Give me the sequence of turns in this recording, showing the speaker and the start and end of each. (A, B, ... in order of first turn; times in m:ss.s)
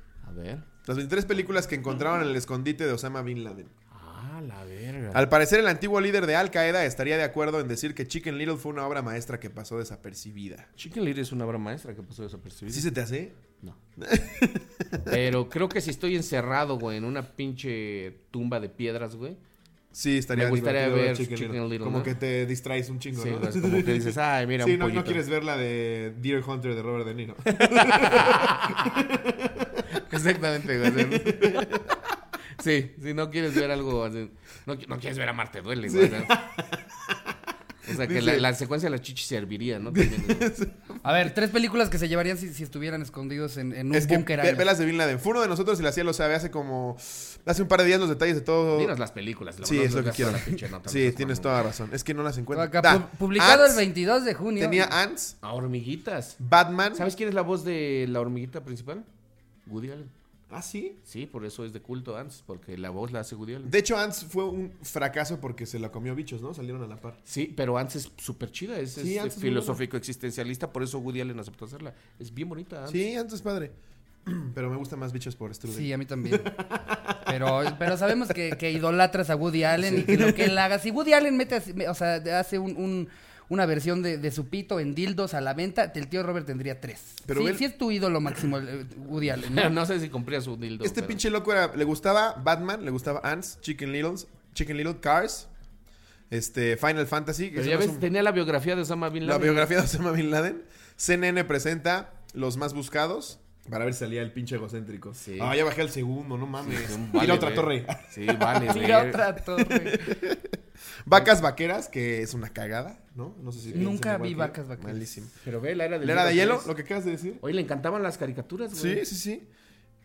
0:00.2-0:00.7 A
0:00.8-0:03.7 B
0:03.9-0:05.3 A
0:05.1-0:10.7 B
0:10.8-0:12.9 A
0:12.7-0:13.4 B
0:14.0-0:15.2 B
0:15.1-0:19.4 A
0:19.9-0:29.9 B
0:20.3-0:22.1 A
0:23.2-0:25.2 A
0:27.7-0:29.0 A
0:29.9-0:31.7 A
0:30.8-0:32.0 B
0:32.6-0:36.4 A
0:35.9-0:37.4 B
0:37.9-0:40.5 A
0:37.9-0:38.5 B
0:39.9-0:41.0 B
0:41.0-0:44.7 C
0:43.9-0:49.0 B
0:48.7-0:51.6 A
0:49.6-0:53.8 B
0:52.5-0:54.9 C
0:54.6-0:55.4 B
0:55.4-0:56.4 A
0:56.4-0:57.1 B
0:56.9-0:59.1 A
0:59.7-1:00.1 A
1:00.5-1:01.0 B
1:01.1-1:03.7 A
1:03.6-1:07.2 B
1:07.3-1:13.0 A
1:09.0-1:09.8 B
1:12.9-1:18.4 B
1:15.7-1:16.5 C
1:17.3-1:29.7 C
1:19.8-1:20.6 B
1:27.3-1:27.6 B
1:29.3-1:31.2 A
1:30.8-1:35.5 B
1:36.3-1:38.1 B
1:37.6-1:39.7 A
1:39.2-1:49.0 B
1:45.2-1:45.5 A
1:46.6-1:49.3 A
1:48.7-1:50.1 C
1:49.5-1:55.3 B
1:53.7-1:55.0 C
1:55.4-1:56.7 A
1:56.0-1:57.4 B
1:57.4-1:59.0 A
1:58.7-1:59.5 B